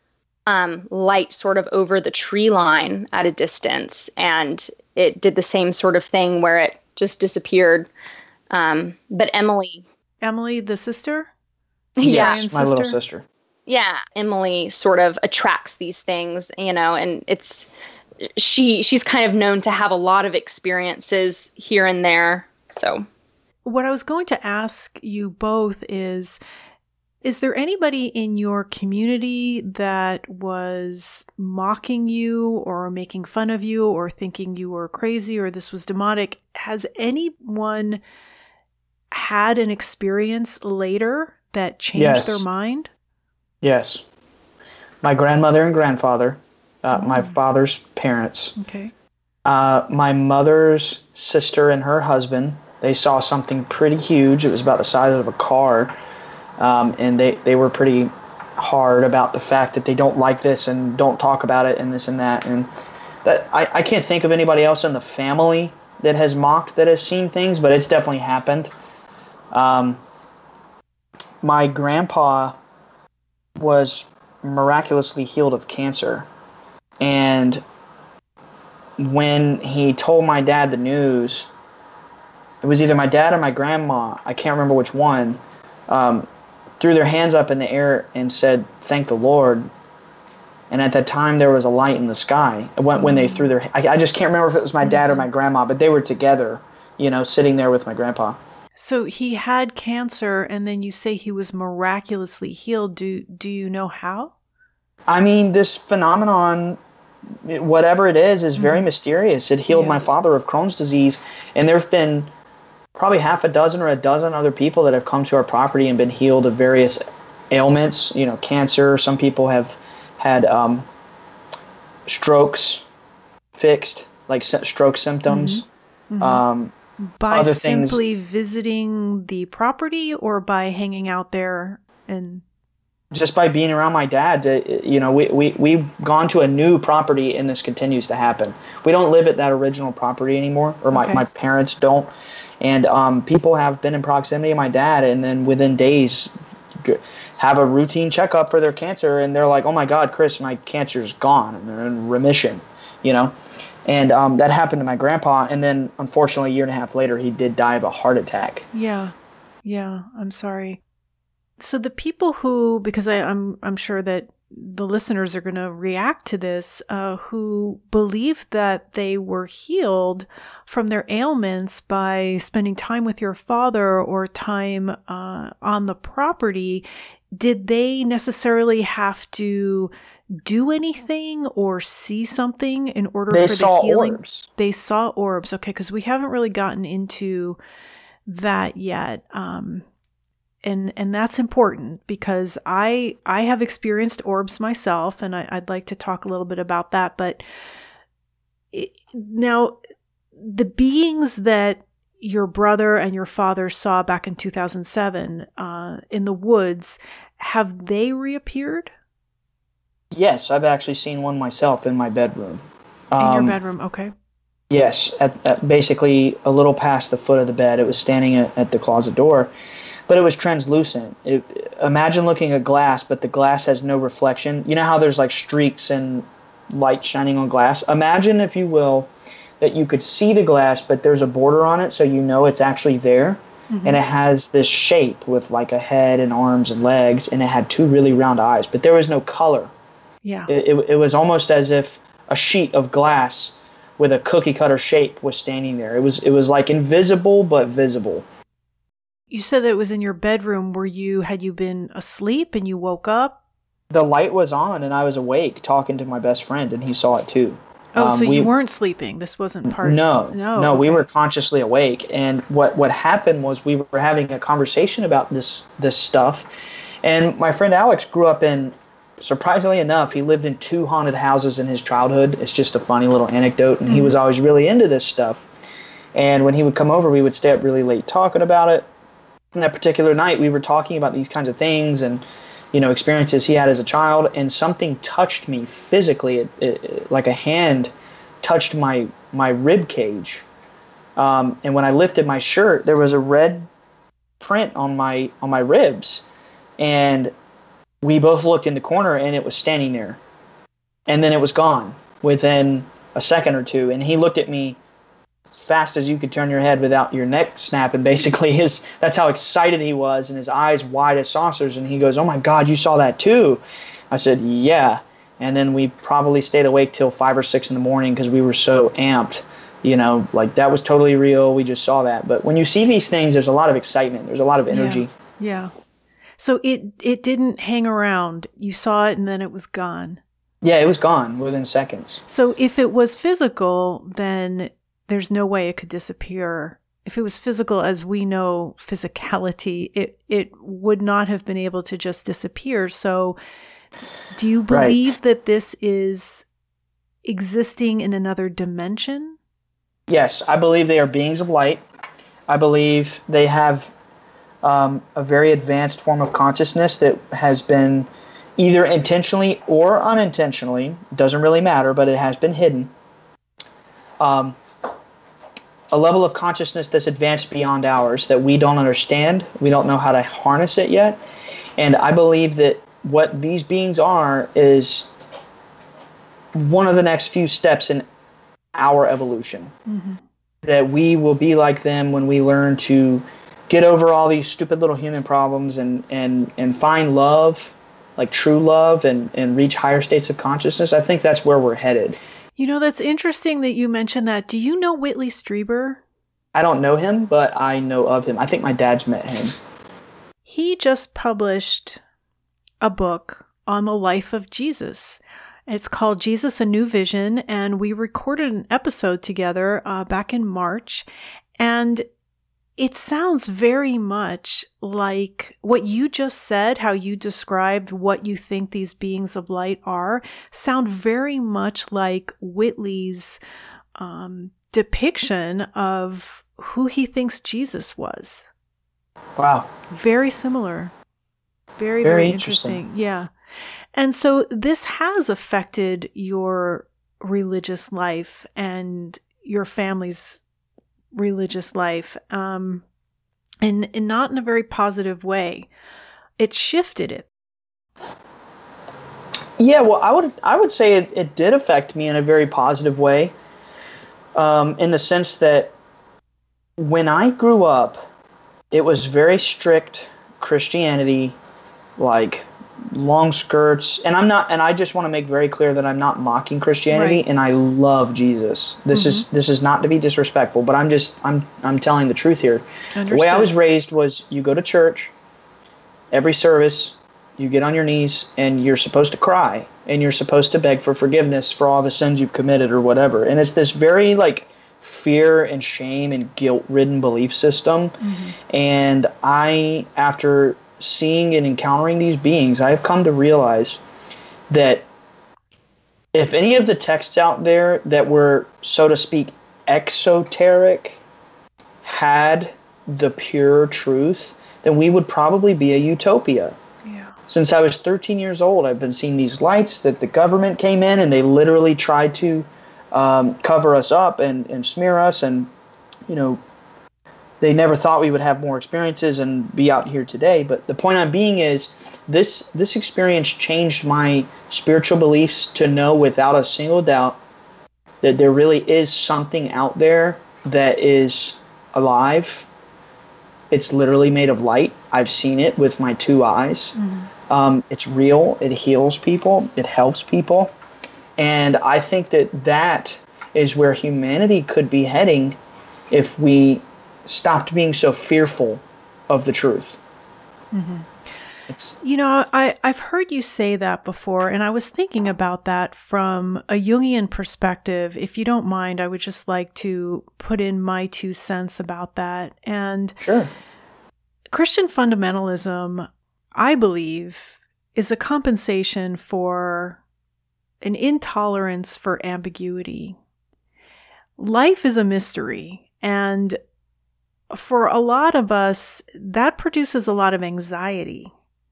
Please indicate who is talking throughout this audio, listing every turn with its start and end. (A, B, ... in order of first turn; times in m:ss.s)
0:00.5-0:07.9 A
0:08.5-0:09.8 A
0:10.2-0:11.3 B
0:12.0-0:12.4 A
0:12.0-0:13.3 C
0:12.1-0:13.0 B
0:13.7-0:17.7 A
0:18.4-0:23.1 A
0:23.6-0:26.4 B
0:27.2-0:38.0 B
0:39.1-0:42.9 B
0:42.0-0:42.4 C
0:43.6-0:44.0 C
0:45.0-0:48.6 C
0:46.9-0:47.4 B
0:48.6-0:48.9 B
0:49.5-0:56.0 C
0:56.6-1:02.7 C
1:03.2-1:08.7 C
1:09.5-1:10.0 C
1:11.4-1:12.6 C
1:13.6-1:16.3 C
1:17.0-1:17.6 C
1:19.0-1:21.5 C
1:22.6-1:26.3 C
1:26.8-1:29.7 C
1:30.7-1:38.4 C
1:33.0-1:33.5 B
1:34.8-1:35.2 B
1:38.8-1:44.3 B
1:45.1-1:46.8 C
1:47.4-1:52.3 C
1:48.6-1:48.8 B
1:49.7-1:50.1 B
1:53.0-2:00.9 C
2:02.1-2:02.8 C
2:03.6-2:05.6 C
2:05.3-2:06.4 B
2:06.2-2:06.7 C
2:07.0-2:12.4 B
2:07.3-2:08.0 C
2:13.1-2:22.1 C
2:20.9-2:21.2 B
2:22.6-2:33.3 C
2:33.9-2:38.6 C
2:38.7-2:39.1 B
2:39.6-2:40.8 B
2:41.6-3:07.6 B
3:03.3-3:04.5 C
3:08.3-3:09.9 B
3:10.6-3:17.4 B
3:18.7-3:19.8 B
3:20.4-3:28.9 B
3:30.1-3:33.6 C
3:33.2-3:34.1 B
3:34.7-3:39.5 C
3:40.1-3:49.1 C
3:49.6-3:59.7 C
3:53.7-3:54.0 B
4:00.2-4:00.5 B
4:00.5-4:08.3 C
4:09.3-4:13.4 B
4:13.9-4:18.5 C
4:18.0-4:21.0 B
4:19.7-4:26.5 C
4:27.0-4:35.5 C
4:33.9-4:34.1 B
4:36.2-4:38.9 C
4:39.5-4:50.4 C
4:51.2-4:53.7 C
4:54.4-4:56.3 C
4:56.8-4:57.3 C
4:58.0-5:00.2 C
5:01.1-5:04.8 C
5:05.5-5:25.1 C
5:24.7-5:25.7 B
5:26.4-5:30.2 B
5:30.6-5:32.2 C
5:32.3-5:43.4 B
5:44.3-5:46.5 B
5:44.7-5:45.0 C
5:47.2-5:49.4 B
5:50.1-5:51.8 C
5:52.5-5:53.9 C
5:54.6-6:02.9 C
6:04.2-6:04.6 C
6:05.9-6:11.2 C
6:11.8-6:15.1 C
6:16.5-6:18.0 C
6:18.8-6:19.7 C
6:19.9-6:20.2 B
6:20.6-6:32.2 C
6:32.6-6:36.0 B
6:36.5-6:39.6 C
6:40.5-6:42.0 B
6:42.8-6:51.1 B
6:51.6-6:52.1 B
6:52.8-7:03.4 B
7:04.0-7:08.5 B
7:09.4-7:09.7 C
7:09.9-7:10.9 B
7:11.8-7:13.3 B
7:12.0-7:12.8 C
7:13.9-7:20.4 B
7:21.1-7:22.8 B
7:23.6-7:25.7 B
7:26.4-7:27.3 B
7:29.6-7:33.3 C
7:34.4-7:35.7 C
7:36.8-7:38.0 C
7:38.7-7:41.4 C
7:42.0-7:55.1 C
7:46.9-7:47.2 B
7:48.9-7:49.2 B
7:53.0-7:53.5 B
7:56.1-8:13.8 C
8:08.0-8:08.4 B
8:14.5-8:14.9 C
8:16.1-8:21.0 C
8:21.8-8:26.6 C
8:26.8-8:27.2 B
8:27.3-8:35.5 C
8:36.1-8:36.4 C
8:37.4-8:47.2 C
8:48.0-8:52.5 C
8:53.5-8:56.7 C
8:56.8-8:57.1 B
8:57.3-9:00.5 C
9:01.2-9:05.4 C
9:05.9-9:09.8 C
9:10.5-9:11.0 B
9:11.5-9:11.8 C
9:11.8-9:23.0 B
9:23.0-9:23.3 C
9:24.3-9:29.8 B
9:30.6-9:33.0 B
9:34.2-9:36.4 B
9:37.3-9:41.1 B